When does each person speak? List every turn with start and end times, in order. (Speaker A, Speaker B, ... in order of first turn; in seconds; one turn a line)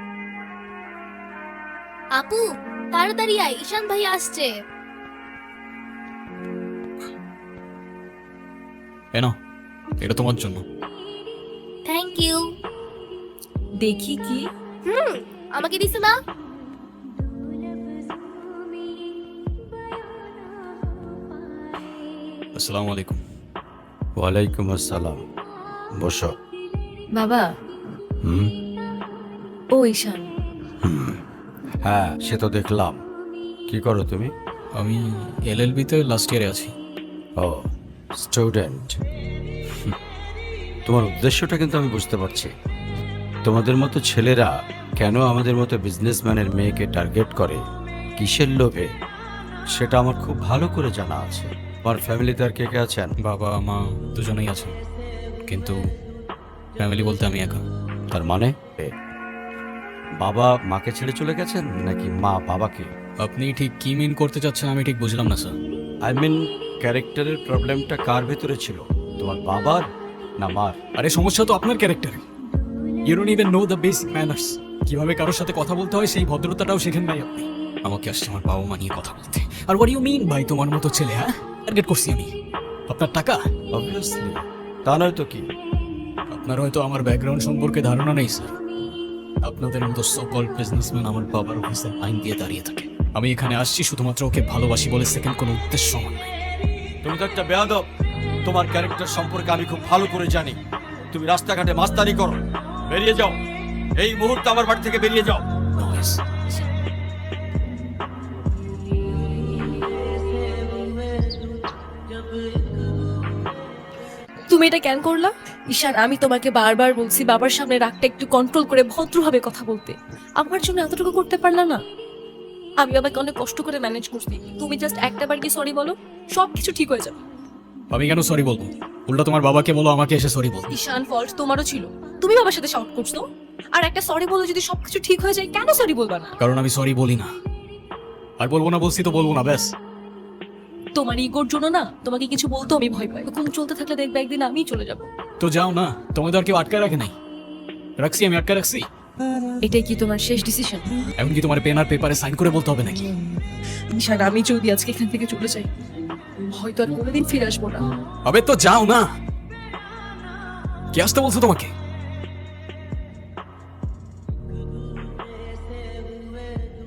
Speaker A: 2.1-4.6
Speaker B: 10.0-10.6
Speaker A: 11.8-12.6
Speaker C: 13.8-14.5
Speaker A: 14.8-16.2
Speaker B: 22.5-23.2
Speaker D: 24.2-25.2
Speaker D: 26.0-26.3
Speaker C: 27.1-27.5
Speaker D: 28.2-28.5
Speaker C: 29.7-30.3
Speaker D: 30.8-31.2
Speaker D: 31.8-33.0
Speaker D: 33.7-34.3
Speaker B: 34.7-36.7
Speaker D: 37.4-37.7
Speaker D: 38.2-39.0
Speaker D: 40.9-42.5
Speaker D: 43.4-47.6
Speaker D: 48.2-48.9
Speaker D: 49.7-53.1
Speaker B: 53.2-54.8
Speaker B: 55.5-55.8
Speaker B: 56.8-57.6
Speaker D: 58.1-58.9
Speaker D: 60.2-62.9
Speaker B: 63.2-65.5
Speaker D: 66.0-69.9
Speaker D: 70.4-70.8
Speaker B: 71.0-72.2
Speaker B: 73.1-82.3
Speaker B: 82.9-83.4
Speaker D: 83.7-85.5
Speaker B: 86.3-88.5
Speaker B: 89.4-96.3
Speaker D: 97.0-97.8
Speaker D: 98.4-100.6
Speaker D: 101.1-103.4
Speaker D: 104.0-105.5
Speaker B: 105.8-106.2
Speaker C: 114.5-121.8
Speaker C: 122.8-127.2
Speaker B: 127.9-130.7
Speaker C: 130.7-136.3
Speaker B: 136.4-137.3
Speaker B: 138.4-139.7
Speaker C: 140.9-145.1
Speaker B: 145.4-147.1
Speaker B: 148.0-148.9
Speaker C: 149.6-151.0
Speaker B: 151.2-153.1
Speaker C: 153.9-155.7
Speaker C: 156.4-157.9
Speaker B: 158.2-159.1
Speaker B: 160.9-161.7